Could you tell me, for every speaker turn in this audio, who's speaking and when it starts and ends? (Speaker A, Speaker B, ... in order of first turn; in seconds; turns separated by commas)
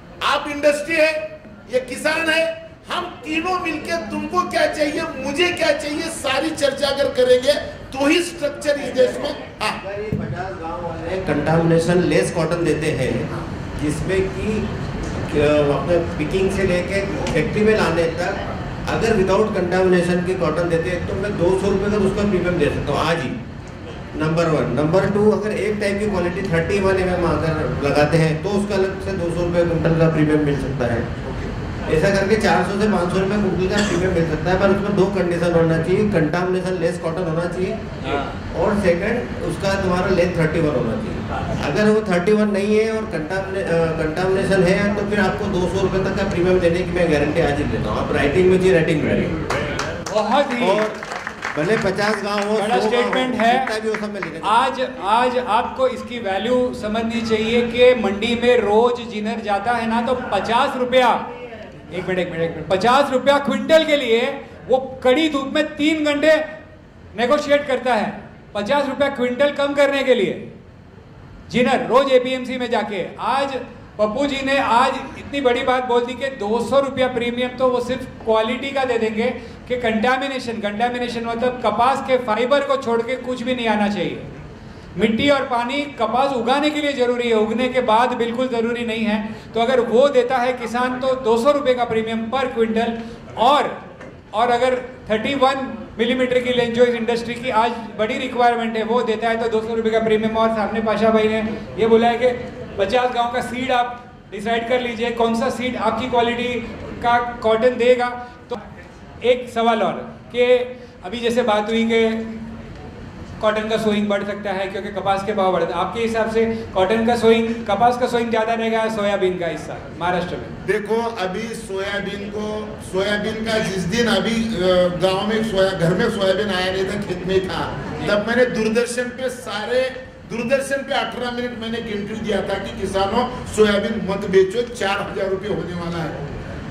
Speaker A: 0.2-9.8, Speaker B: 8.8-9.3, Speaker B: 9.8-14.7, Speaker B: 15.3-23.4, Speaker B: 24.1-31.1, Speaker B: 31.9-37.8, Speaker B: 38.4-49.3, Speaker C: 50.1-50.9, Speaker B: 50.6-51.0, Speaker B: 51.5-54.5, Speaker C: 52.5-53.7, Speaker C: 54.4-61.2, Speaker C: 61.9-66.4, Speaker C: 67.1-70.4, Speaker C: 71.5-84.3, Speaker C: 84.9-93.8, Speaker C: 94.3-108.6, Speaker C: 109.2-112.4, Speaker C: 113.4-120.5, Speaker A: 120.6-136.2